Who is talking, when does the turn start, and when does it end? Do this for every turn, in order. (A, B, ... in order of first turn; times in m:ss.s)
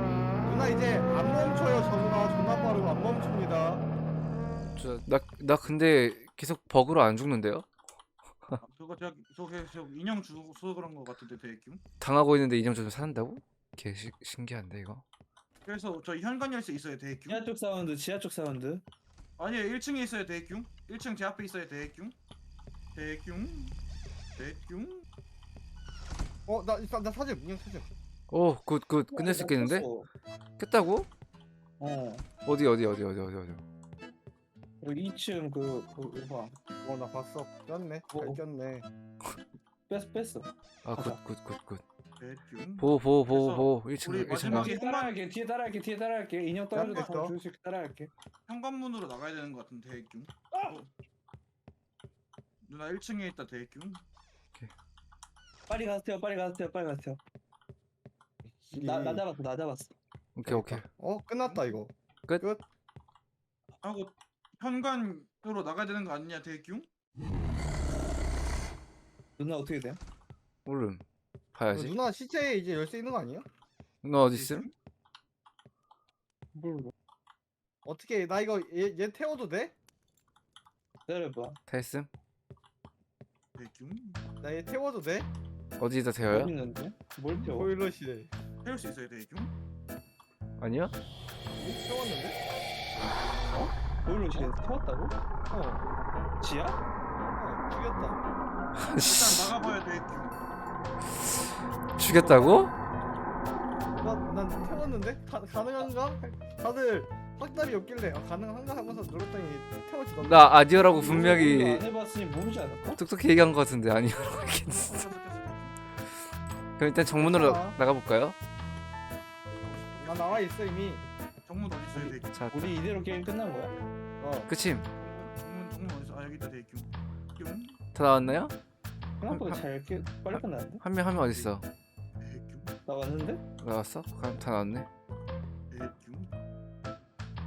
0:00.4-0:03.8 A
0:04.8-0:07.6 B
0:08.6-0:11.8 C
0:12.0-0:15.0 B
0:15.6-0:17.5 C
0:17.3-0:18.8 D
0:19.4-0:22.1 C
0:22.9-0:23.7 C
0:24.4-0:25.0 C
0:26.5-0:27.9 A
0:28.3-0:29.9 B
0:29.1-0:30.1 D
0:30.6-0:31.1 B
0:31.8-0:32.2 D
0:32.4-0:33.6 B
0:34.8-0:36.6 D
0:36.8-0:38.8 A
0:38.1-0:38.4 D
0:39.9-0:41.2 D
0:40.8-0:41.8 B
0:42.2-0:45.2 C
0:42.8-0:44.7 B
0:44.5-0:48.1 D
0:46.7-0:47.3 A
0:46.8-0:47.2 C
0:48.5-0:50.9 C
0:50.5-0:50.8 D
0:52.6-0:54.0 C
0:55.7-0:57.2 D
0:58.4-0:59.2 A
0:58.7-0:59.9 D
1:00.4-1:00.8 B
1:00.4-1:02.6 A
1:01.4-1:01.7 C
1:03.8-1:06.9 C
1:09.4-1:10.0 D
1:10.6-1:11.0 B
1:11.5-1:11.9 B
1:11.7-1:13.4 A
1:14.0-1:14.7 B
1:14.3-1:14.7 C
1:16.5-1:16.9 D
1:17.8-1:19.7 A
1:21.1-1:21.6 D
1:21.7-1:22.1 B
1:23.6-1:24.2 C
1:24.4-1:25.3 A
1:25.8-1:26.5 B
1:26.2-1:27.7 D
1:27.4-1:28.3 A
1:28.6-1:29.5 C
1:30.6-1:30.9 B
1:31.6-1:32.4 A
1:33.5-1:35.1 D
1:35.5-1:35.9 A
1:36.4-1:36.8 D
1:37.3-1:38.2 A
1:38.8-1:39.5 B
1:39.0-1:40.4 C
1:42.0-1:42.7 B
1:42.2-1:42.6 D
1:44.0-1:50.8 A
1:50.2-1:51.9 B
1:50.8-1:53.0 D
1:52.9-1:55.0 B
1:54.7-1:55.8 C
1:56.8-1:58.4 B
1:57.2-1:57.8 A
1:59.6-2:00.5 C
2:00.0-2:01.0 A
2:01.4-2:02.5 C
2:01.9-2:03.7 D
2:02.3-2:02.8 B
2:04.2-2:04.5 A
2:04.5-2:04.9 B
2:05.0-2:07.8 C
2:07.9-2:08.5 B
2:09.2-2:10.8 D
2:09.3-2:09.6 B
2:10.3-2:11.6 B
2:12.2-2:12.7 C
2:12.8-2:13.4 D
2:13.6-2:14.9 B
2:15.7-2:16.3 C